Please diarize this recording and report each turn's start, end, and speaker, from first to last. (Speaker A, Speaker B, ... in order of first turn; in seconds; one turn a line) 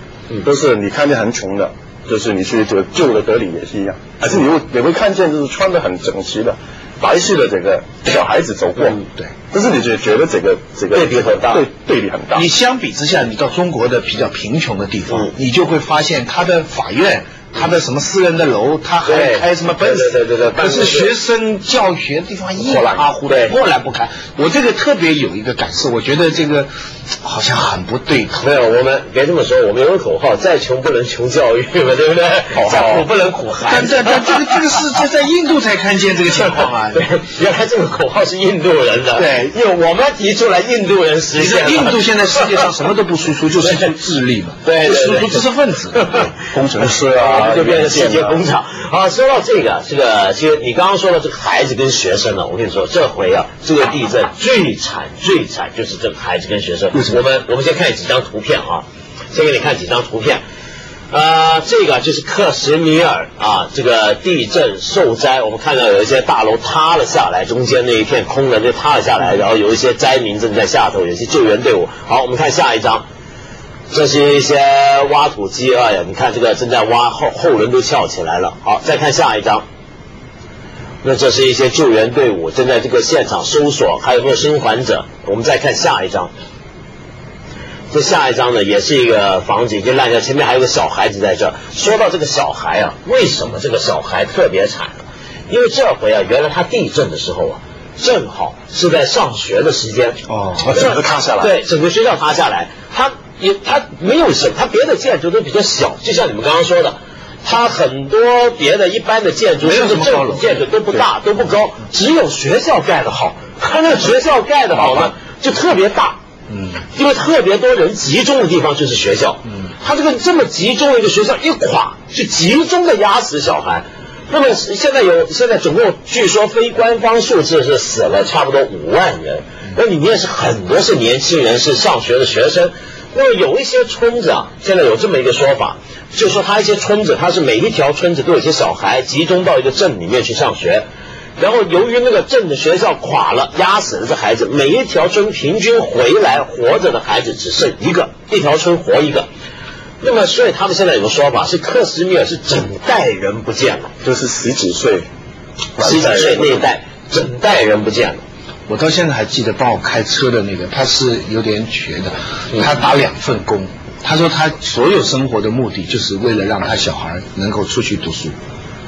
Speaker A: 0.4-9.0
Speaker A: 9.5-12.5
Speaker B: 10.9-11.6
Speaker C: 12.3-26.7
Speaker B: 19.0-21.1
Speaker A: 22.6-23.1
Speaker B: 23.2-23.5
Speaker C: 27.2-28.4
Speaker B: 28.3-34.8
Speaker A: 32.5-33.0
Speaker C: 33.7-37.0
Speaker B: 36.3-42.6
Speaker C: 39.1-39.5
Speaker C: 41.4-46.1
Speaker B: 44.6-46.3
Speaker A: 46.3-48.4
Speaker B: 46.8-60.4
Speaker B: 61.1-73.0
Speaker B: 73.9-79.7
Speaker B: 81.0-86.3
Speaker B: 87.9-116.2
Speaker C: 100.3-100.7
Speaker A: 100.6-101.5
Speaker C: 109.6-110.6
Speaker C: 116.5-116.8
Speaker B: 116.9-140.8
Speaker B: 141.4-149.3
Speaker B: 150.0-153.9
Speaker A: 154.0-155.1
Speaker A: 155.8-156.7
Speaker B: 155.8-158.2
Speaker C: 158.7-168.3